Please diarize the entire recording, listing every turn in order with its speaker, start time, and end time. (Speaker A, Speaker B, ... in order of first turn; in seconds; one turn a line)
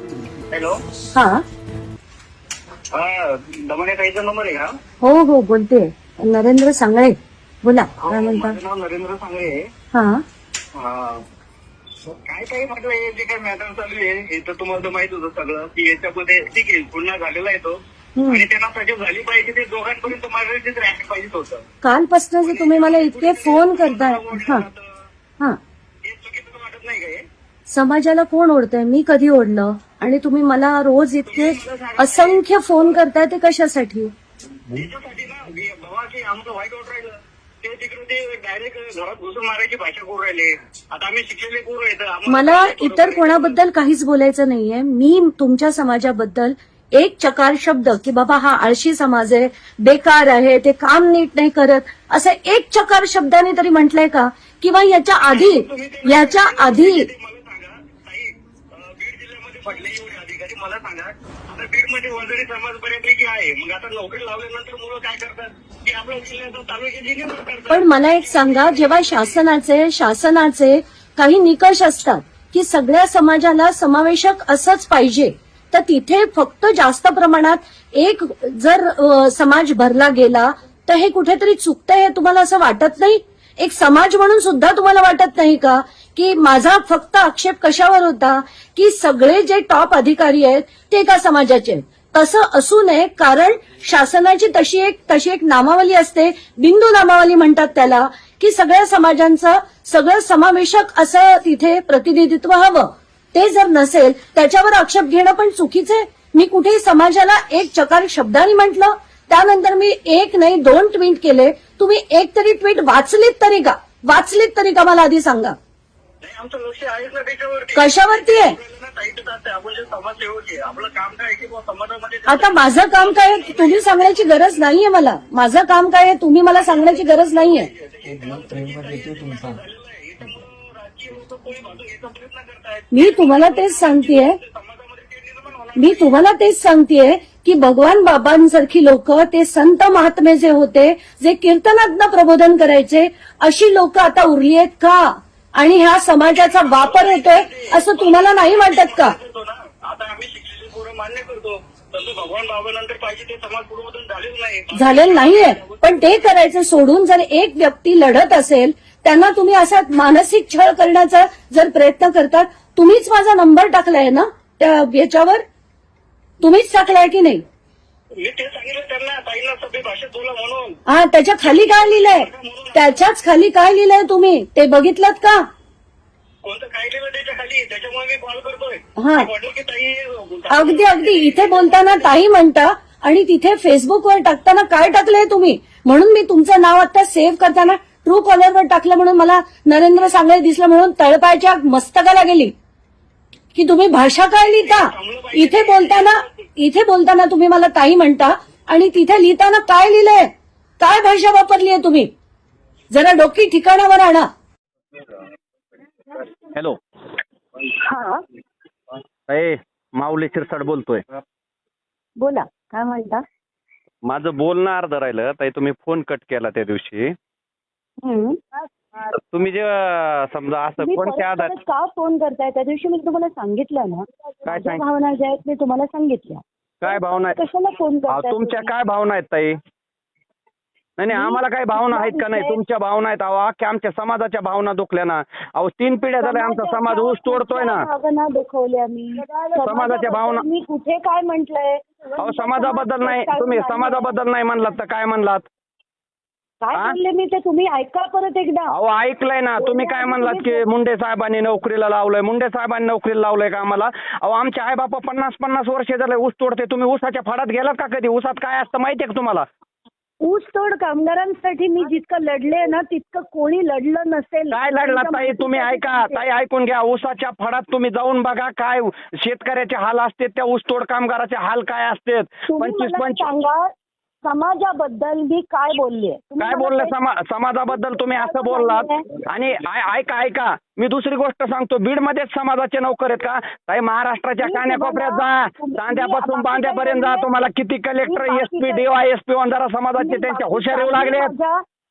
Speaker A: 0.5-0.8
Speaker B: 1.1-1.4
Speaker A: 2.9-4.8
Speaker B: 5.0-8.6
Speaker A: 8.0-9.7
Speaker B: 9.9-10.2
Speaker A: 10.8-11.2
Speaker A: 12.3-21.6
Speaker B: 18.2-18.4
Speaker B: 21.8-24.6
Speaker A: 22.4-25.1
Speaker A: 26.0-27.2
Speaker B: 27.7-34.1
Speaker A: 31.3-33.0
Speaker A: 34.7-43.6
Speaker B: 42.3-57.1
Speaker A: 55.3-69.4
Speaker B: 67.7-115.5
Speaker A: 116.2-124.5
Speaker B: 117.8-118.6
Speaker B: 122.3-127.7
Speaker A: 126.5-136.2
Speaker B: 132.9-134.4
Speaker B: 135.8-149.2
Speaker A: 146.3-156.3
Speaker B: 154.7-165.4
Speaker B: 166.4-167.4
Speaker A: 168.2-170.8
Speaker B: 170.9-175.4
Speaker A: 171.4-172.9
Speaker A: 176.4-182.2
Speaker B: 179.0-179.3
Speaker B: 180.5-192.5
Speaker B: 193.5-200.3
Speaker A: 194.4-196.3
Speaker B: 200.8-202.1
Speaker B: 202.9-204.3
Speaker C: 207.8-208.2
Speaker D: 209.3-211.0
Speaker C: 212.2-213.2
Speaker D: 214.1-217.2
Speaker C: 218.0-218.6
Speaker D: 219.3-221.5
Speaker C: 220.8-228.7
Speaker D: 224.5-224.8
Speaker D: 226.8-227.4
Speaker D: 228.1-229.6
Speaker D: 231.0-237.8
Speaker C: 231.1-232.6
Speaker C: 236.2-244.1
Speaker D: 239.6-240.4
Speaker D: 242.2-245.5
Speaker C: 246.6-248.7
Speaker D: 248.7-259.4
Speaker C: 249.6-250.6
Speaker C: 260.2-266.3
Speaker D: 264.5-273.2
Speaker C: 272.5-273.7
Speaker C: 274.2-276.9
Speaker D: 276.4-291.3
Speaker C: 277.8-279.0
Speaker C: 284.4-287.3
Speaker C: 288.0-288.9
Speaker C: 290.0-291.6